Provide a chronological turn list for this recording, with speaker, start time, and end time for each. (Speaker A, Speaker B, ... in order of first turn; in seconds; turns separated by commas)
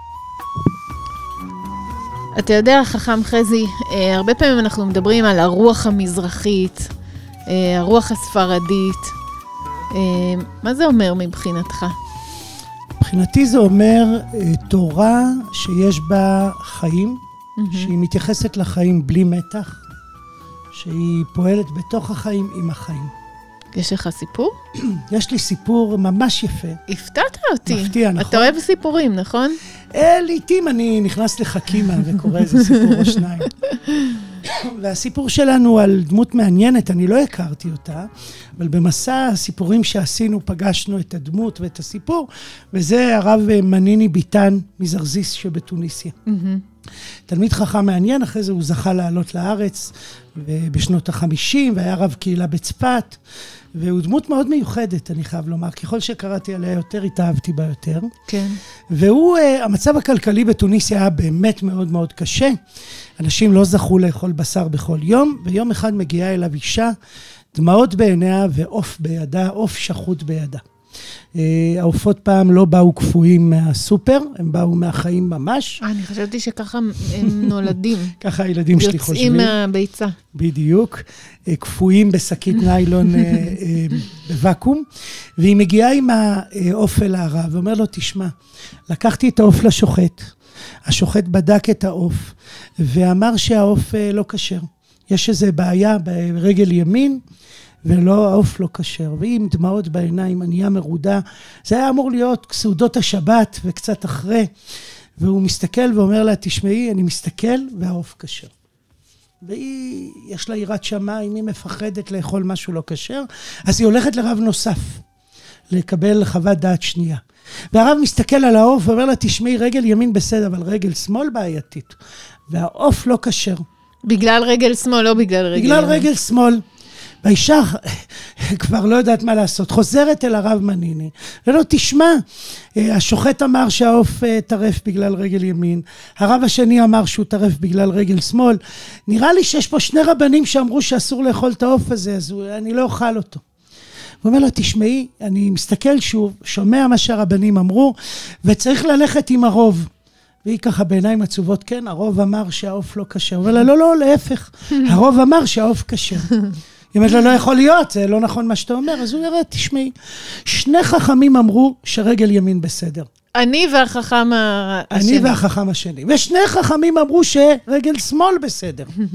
Speaker A: 2.4-6.9, Speaker A: 7.5-9.2, Speaker A: 9.9-11.9, Speaker B: 13.0-17.2, Speaker A: 17.6-17.9, Speaker B: 17.7-19.8, Speaker B: 20.7-23.1, Speaker A: 23.7-24.5, Speaker B: 24.8-26.8, Speaker A: 26.9-29.6, Speaker B: 27.7-28.6, Speaker B: 29.9-33.5, Speaker B: 34.4-46.1, Speaker A: 46.3-46.6, Speaker B: 47.3-53.2, Speaker B: 53.8-58.1, Speaker A: 58.3-58.6, Speaker B: 58.9-62.6, Speaker B: 63.2-66.9, Speaker B: 67.5-70.6, Speaker B: 71.4-75.8, Speaker A: 75.8-78.2, Speaker B: 78.2-79.5, Speaker A: 78.8-80.2, Speaker B: 80.3-84.9, Speaker B: 85.4-88.3, Speaker B: 88.9-90.3, Speaker B: 90.9-97.2, Speaker B: 97.8-104.5, Speaker B: 105.2-108.5, Speaker B: 109.4-115.0, Speaker B: 115.7-117.2, Speaker B: 117.7-122.0, Speaker B: 122.5-123.6, Speaker A: 124.1-126.1, Speaker B: 125.5-126.6, Speaker B: 127.2-132.2, Speaker B: 132.8-143.4, Speaker B: 144.2-149.9, Speaker B: 150.4-156.4, Speaker B: 156.9-159.9, Speaker B: 160.4-163.1, Speaker A: 163.3-165.4, Speaker B: 164.9-168.9